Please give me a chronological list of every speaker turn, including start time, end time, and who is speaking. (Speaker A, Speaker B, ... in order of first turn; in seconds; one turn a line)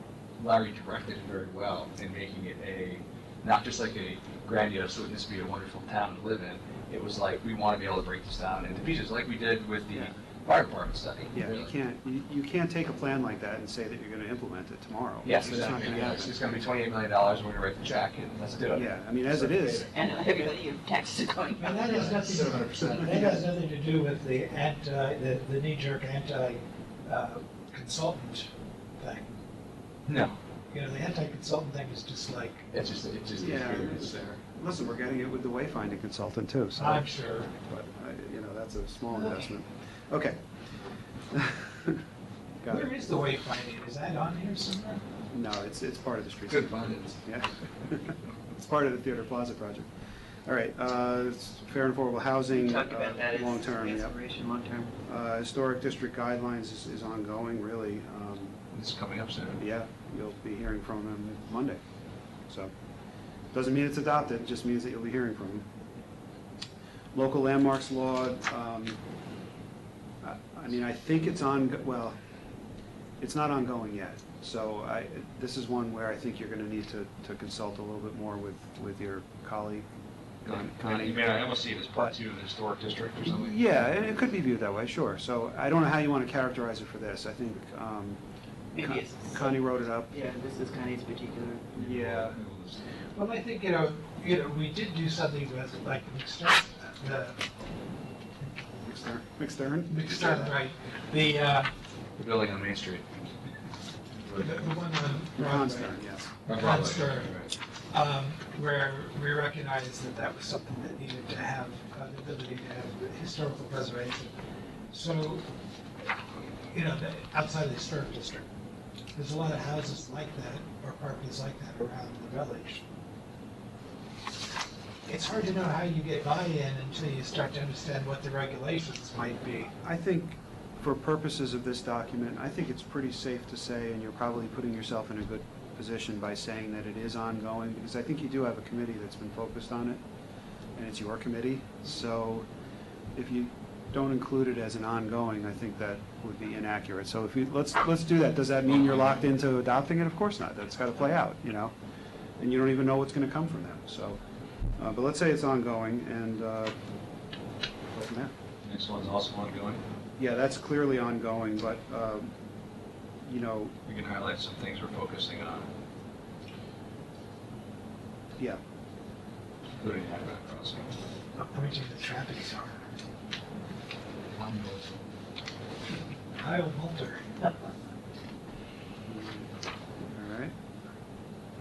Speaker A: 0.4-11.7
Speaker B: 11.3-16.5
Speaker A: 15.2-19.9
Speaker B: 18.7-19.9
Speaker C: 19.9-22.2
Speaker D: 21.6-29.4
Speaker A: 21.9-23.4
Speaker A: 30.1-30.4
Speaker D: 30.7-32.7
Speaker A: 32.7-34.3
Speaker B: 33.4-40.4
Speaker D: 36.8-37.5
Speaker D: 39.1-39.5
Speaker B: 41.3-42.0
Speaker B: 42.6-42.9
Speaker D: 42.7-45.0
Speaker B: 45.3-49.9
Speaker A: 46.5-47.2
Speaker B: 50.5-54.2
Speaker C: 52.5-54.9
Speaker B: 55.0-58.6
Speaker A: 58.7-59.6
Speaker B: 59.6-61.8
Speaker B: 63.5-65.7
Speaker B: 67.1-69.0
Speaker B: 70.2-72.2
Speaker B: 73.2-79.9
Speaker B: 80.4-82.2
Speaker A: 80.5-83.7
Speaker B: 83.2-88.2
Speaker C: 88.8-89.6
Speaker B: 88.8-90.1
Speaker C: 90.1-91.7
Speaker A: 91.7-92.8
Speaker B: 91.8-92.4
Speaker D: 93.2-97.4
Speaker B: 98.8-100.6
Speaker D: 99.9-101.7
Speaker A: 102.2-103.1
Speaker A: 104.3-104.6
Speaker D: 104.4-114.3
Speaker B: 105.4-106.3
Speaker A: 106.5-107.5
Speaker D: 114.9-115.5
Speaker D: 116.4-118.5
Speaker D: 119.2-122.8
Speaker D: 125.1-129.7
Speaker B: 129.8-140.0
Speaker B: 140.8-142.5
Speaker B: 143.2-151.7
Speaker B: 152.4-154.2
Speaker B: 154.8-156.8
Speaker B: 157.9-158.3
Speaker A: 158.6-159.8
Speaker B: 160.2-162.3
Speaker B: 163.2-163.7
Speaker A: 163.9-165.7
Speaker A: 169.8-171.0
Speaker D: 171.4-172.8
Speaker A: 174.3-175.1
Speaker D: 176.4-177.4
Speaker B: 179.1-179.5
Speaker B: 180.1-180.5